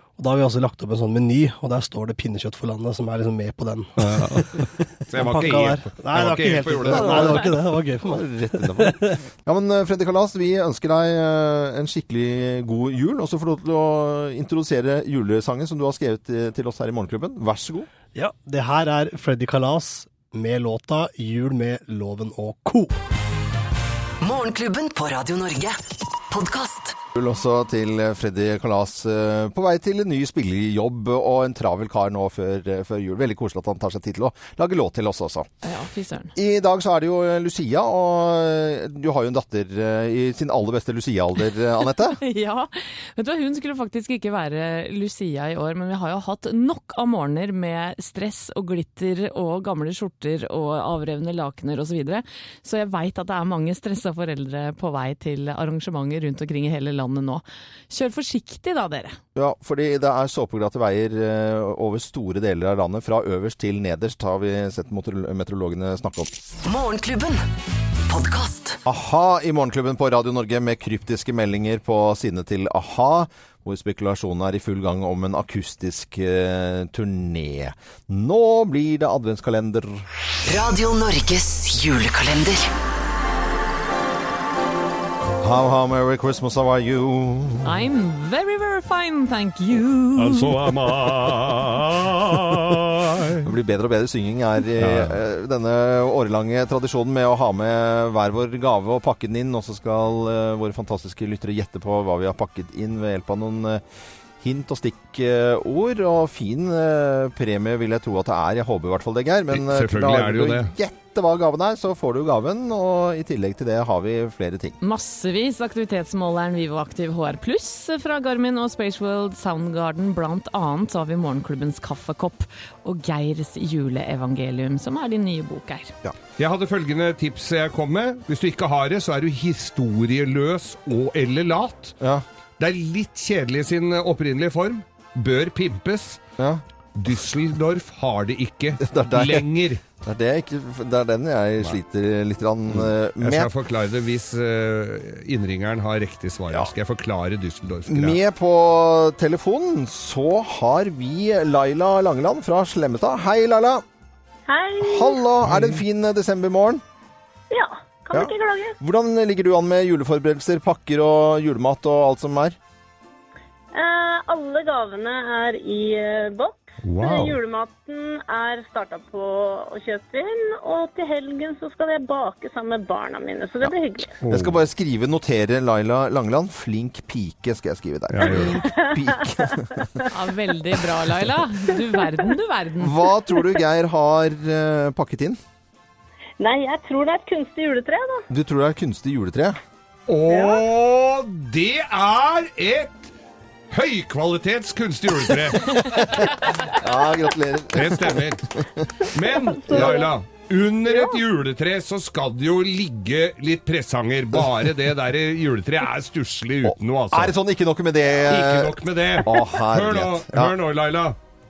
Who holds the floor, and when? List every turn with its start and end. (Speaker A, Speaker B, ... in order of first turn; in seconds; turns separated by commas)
Speaker A: 0.2-9.2, Speaker B: 4.0-7.5, Speaker C: 6.9-17.9, Speaker A: 18.1-23.0, Speaker D: 24.2-27.0, Speaker C: 27.1-35.5, Speaker E: 35.6-36.3, Speaker C: 36.4-42.2, Speaker E: 42.1-59.2, Speaker C: 59.3-66.3, Speaker D: 66.6-67.4, Speaker D: 68.1-68.8, Speaker C: 68.8-80.1, Speaker D: 80.5-82.7, Speaker C: 85.4-87.8, Speaker E: 87.6-90.6, Speaker B: 90.2-93.5, Speaker C: 93.4-103.8, Speaker B: 94.8-95.2, Speaker C: 104.4-114.8, Speaker B: 109.5-110.7, Speaker E: 114.8-125.9, Speaker B: 126.4-131.9, Speaker C: 132.0-132.2, Speaker B: 132.6-136.2, Speaker C: 136.4-136.6, Speaker B: 136.9-139.8, Speaker C: 138.8-139.4, Speaker C: 140.0-143.5, Speaker B: 142.8-148.2, Speaker C: 147.9-153.8, Speaker F: 154.5-155.2, Speaker C: 154.8-156.8, Speaker B: 155.4-155.8, Speaker F: 157.5-158.8, Speaker C: 158.1-162.6, Speaker F: 163.7-174.2, Speaker B: 166.8-167.4, Speaker B: 174.2-174.6, Speaker C: 174.3-180.0, Speaker B: 178.1-178.6, Speaker F: 178.7-180.1, Speaker E: 180.1-183.0, Speaker F: 181.9-182.3, Speaker C: 182.8-185.4, Speaker F: 186.4-188.2, Speaker C: 188.3-189.6, Speaker B: 190.1-193.1, Speaker F: 190.3-190.6, Speaker B: 193.7-196.3, Speaker C: 195.7-198.9, Speaker B: 197.7-198.5, Speaker B: 199.1-207.3, Speaker F: 199.4-200.1, Speaker C: 199.7-200.1, Speaker C: 204.3-204.6, Speaker C: 206.6-210.5, Speaker B: 208.2-211.2